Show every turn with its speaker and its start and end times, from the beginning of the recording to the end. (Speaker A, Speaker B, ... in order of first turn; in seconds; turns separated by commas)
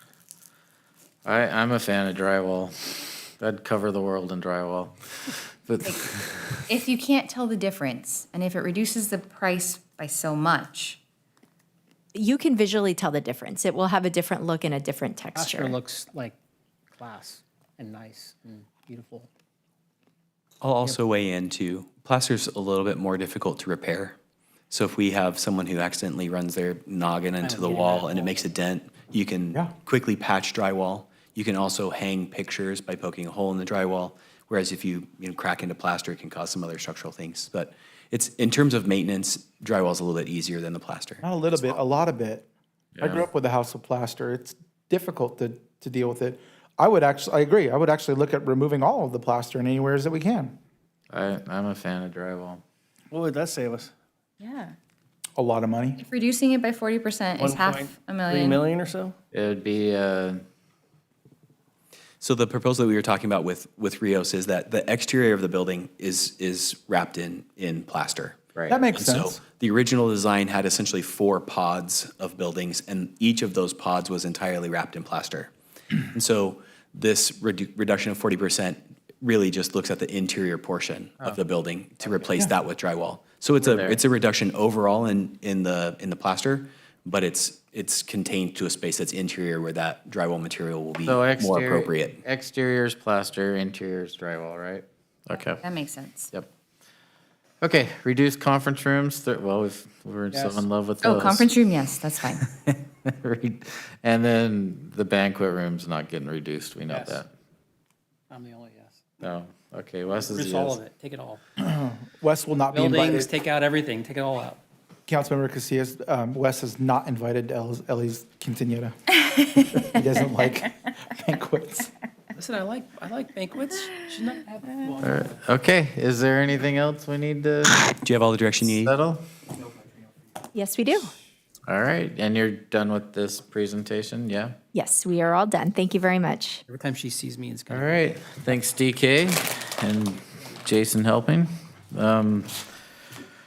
Speaker A: 1.2-6.6, Speaker B: 6.7-11.0, Speaker C: 12.2-15.8, Speaker D: 15.3-16.4, Speaker D: 17.0-19.3, Speaker E: 20.6-24.2, Speaker E: 24.7-41.2, Speaker D: 27.4-28.4, Speaker F: 41.2-42.5, Speaker A: 43.0-43.3, Speaker F: 43.0-50.5, Speaker A: 51.1-52.6, Speaker G: 53.1-53.9, Speaker B: 54.4-54.7, Speaker F: 55.4-56.0, Speaker B: 56.0-58.6, Speaker G: 57.4-59.1, Speaker A: 59.3-60.4, Speaker E: 62.2-68.4, Speaker F: 68.7-69.4, Speaker E: 69.0-75.5, Speaker E: 76.1-92.2, Speaker A: 83.6-84.0, Speaker A: 91.0-95.6, Speaker B: 95.6-96.3, Speaker A: 97.6-101.5, Speaker D: 100.3-100.7, Speaker B: 101.0-102.4, Speaker A: 102.4-107.3, Speaker D: 106.9-107.2, Speaker D: 108.3-109.2, Speaker A: 109.2-110.8, Speaker D: 110.1-111.4, Speaker F: 111.6-113.3, Speaker D: 112.7-114.6, Speaker F: 115.1-118.9, Speaker B: 119.3-119.9, Speaker F: 119.8-121.9, Speaker D: 122.4-125.1, Speaker A: 125.0-127.8, Speaker E: 128.0-128.9, Speaker A: 128.7-129.2, Speaker C: 130.5-131.1, Speaker A: 131.7-134.6, Speaker C: 134.7-136.6, Speaker D: 136.7-138.3, Speaker A: 137.7-142.7